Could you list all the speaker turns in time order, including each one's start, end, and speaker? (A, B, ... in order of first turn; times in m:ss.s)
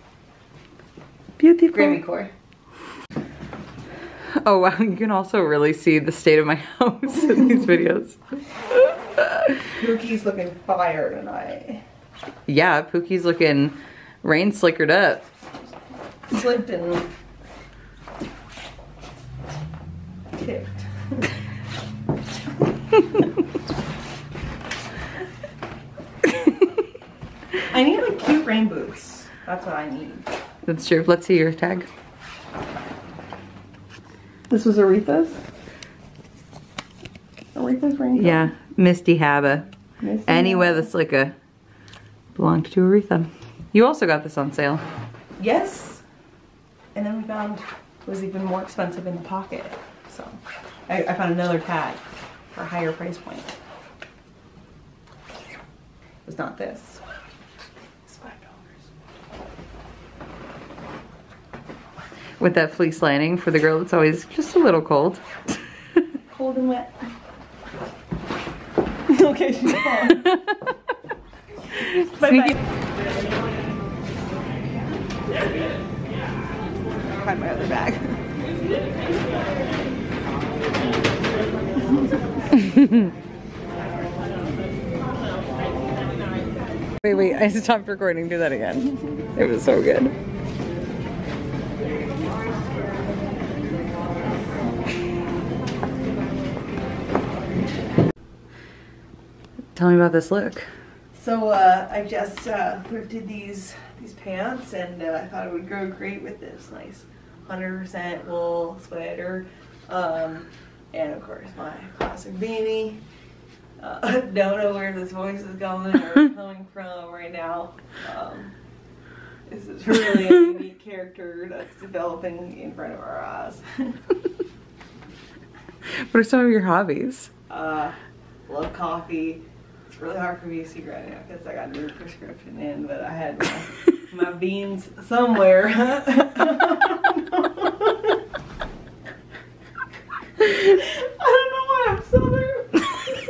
0:01.4-0:02.0 A
0:01.7-0:02.3 B
0:04.3-0:08.2 B
0:09.2-0:09.5 B
0:09.7-0:11.8 A
0:12.5-0:15.3 B
0:16.3-0:17.1 A
0:20.3-0:20.9 A
0:27.7-0:30.2 A
0:30.6-0:31.9 B
0:34.5-0:35.4 A
0:37.5-0:38.5 A
0:38.1-0:39.7 B
0:40.0-0:40.9 A
0:40.2-0:41.3 B
0:42.3-0:44.8 B
0:45.4-0:46.0 A
0:46.9-0:50.4 A
0:50.9-0:52.0 A
0:52.5-0:53.5 A
0:56.2-0:57.0 A
0:58.0-0:58.9 A
1:02.4-1:05.2 B
1:06.3-1:06.9 A
1:09.1-1:10.3 A
1:11.8-1:12.5 B
1:12.1-1:12.5 A
1:17.1-1:18.2 A
1:22.6-1:23.1 B
1:27.0-1:30.1 B
1:39.7-1:40.7 B
1:41.1-1:53.0 A
1:53.8-1:58.5 A
1:59.5-2:03.6 A
2:05.9-2:07.3 B
2:07.5-2:07.9 A
2:08.5-2:18.2 A
2:20.4-2:23.0 A